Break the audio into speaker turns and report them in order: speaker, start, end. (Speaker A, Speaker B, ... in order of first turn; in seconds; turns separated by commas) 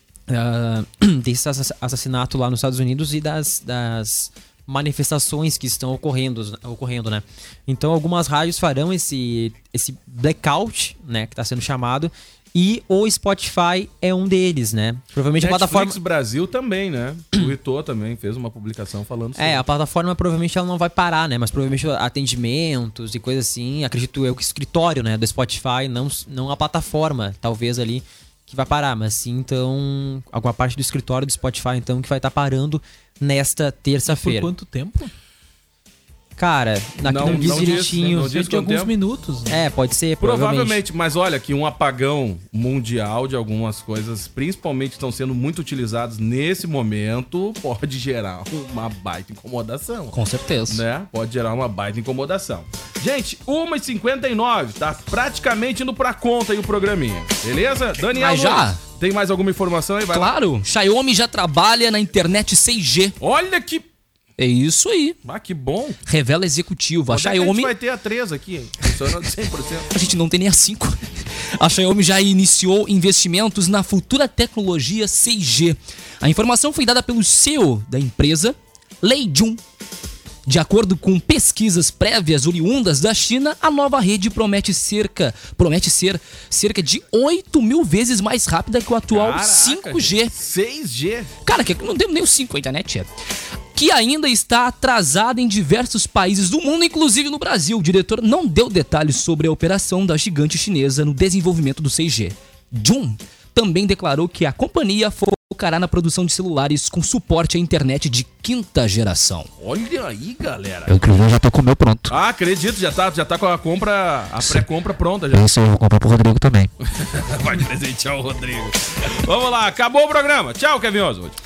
Speaker A: 0.3-16.0, Speaker B: 15.3-19.6, Speaker A: 19.4-34.5, Speaker C: 34.1-35.1, Speaker A: 36.4-38.3, Speaker B: 37.0-38.9, Speaker C: 37.1-39.6, Speaker A: 39.5-40.8, Speaker B: 40.2-50.2, Speaker D: 50.1-50.8, Speaker B: 50.7-60.3, Speaker D: 58.1-58.8, Speaker D: 60.1-63.1, Speaker B: 63.2-63.9, Speaker D: 64.4-65.2, Speaker B: 65.2-66.0, Speaker D: 66.1-67.7, Speaker B: 67.1-69.9, Speaker D: 69.9-71.0, Speaker D: 71.6-79.6, Speaker D: 80.5-90.3, Speaker B: 89.1-91.3, Speaker D: 91.5-93.1, Speaker D: 93.8-109.5, Speaker B: 109.6-111.0, Speaker D: 110.9-112.1, Speaker B: 112.1-115.6, Speaker D: 115.3-116.7, Speaker B: 116.8-121.4